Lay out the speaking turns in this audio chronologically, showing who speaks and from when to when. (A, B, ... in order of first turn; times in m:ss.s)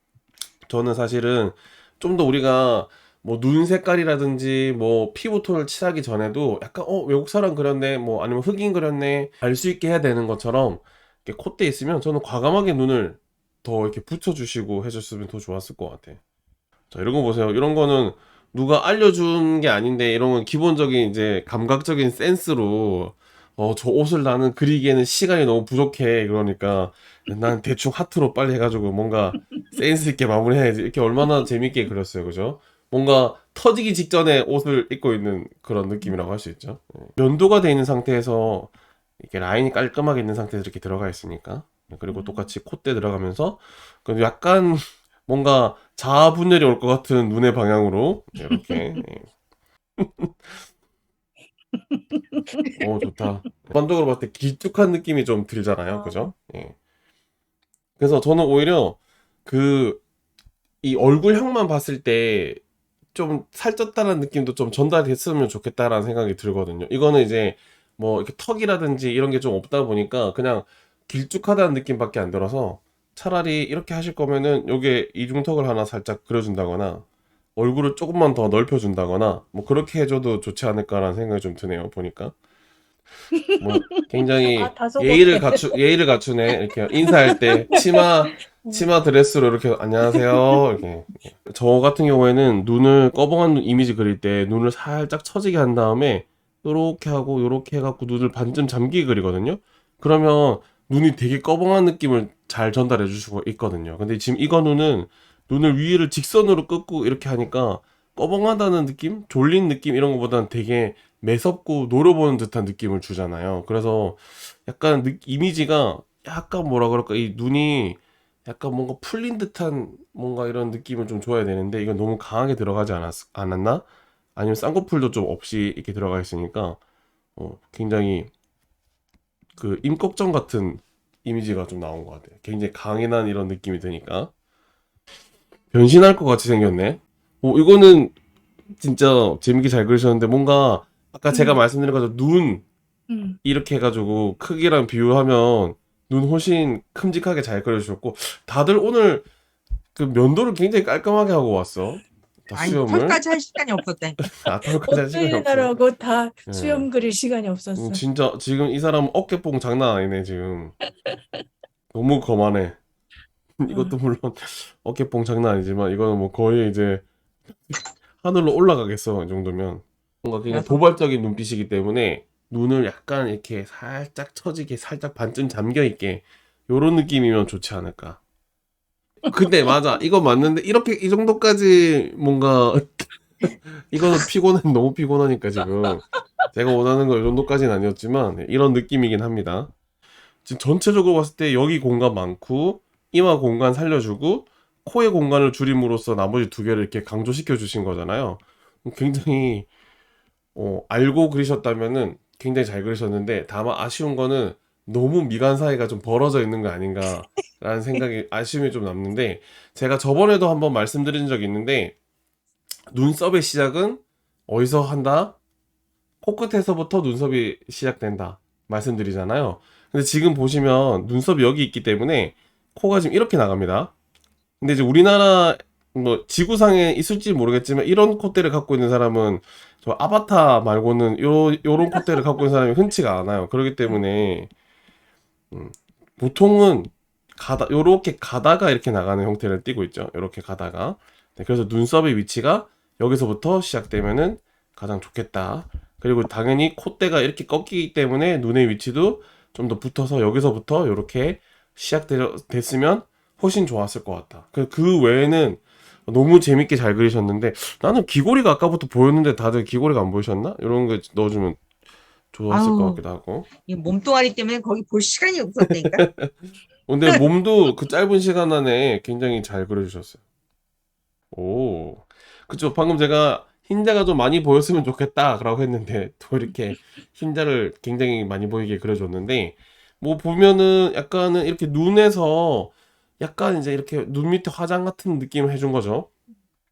0:00.7-0:16.2 A
0:16.9-0:49.3 A
0:42.1-0:42.5 B
0:50.0-0:50.3 A
0:52.1-0:52.7 B
0:52.8-0:56.8 A
0:55.9-0:56.3 B
0:58.0-1:00.0 A
1:00.8-1:02.6 A
1:03.1-1:17.0 A
1:17.6-1:22.3 A
1:23.6-2:03.8 A
1:24.4-1:25.6 B
2:04.4-2:06.8 A
2:07.4-2:08.3 A
2:09.6-2:14.3 A
2:15.7-2:18.1 A
2:18.8-2:22.6 A
2:21.3-2:21.6 B
2:23.1-2:23.4 B
2:23.4-2:29.3 A
2:29.9-2:33.2 A
2:32.5-2:34.2 C
2:34.3-2:35.7 A
2:34.9-2:38.0 B
2:36.5-2:36.9 A
2:37.8-2:40.7 A
2:41.9-2:42.8 A
2:43.6-2:58.2 A
2:43.7-2:44.0 B
2:50.5-2:50.8 B
2:59.3-3:09.7 A
3:10.4-3:19.7 A
3:20.5-3:32.0 A
3:32.9-3:35.4 A
3:36.2-3:43.9 A
3:44.6-3:54.5 A
3:55.5-4:21.6 A
4:22.3-4:23.5 A
4:22.5-4:23.0 C
4:23.6-4:26.0 C
4:25.6-4:26.3 A
4:26.9-4:30.2 A
4:31.3-4:46.1 A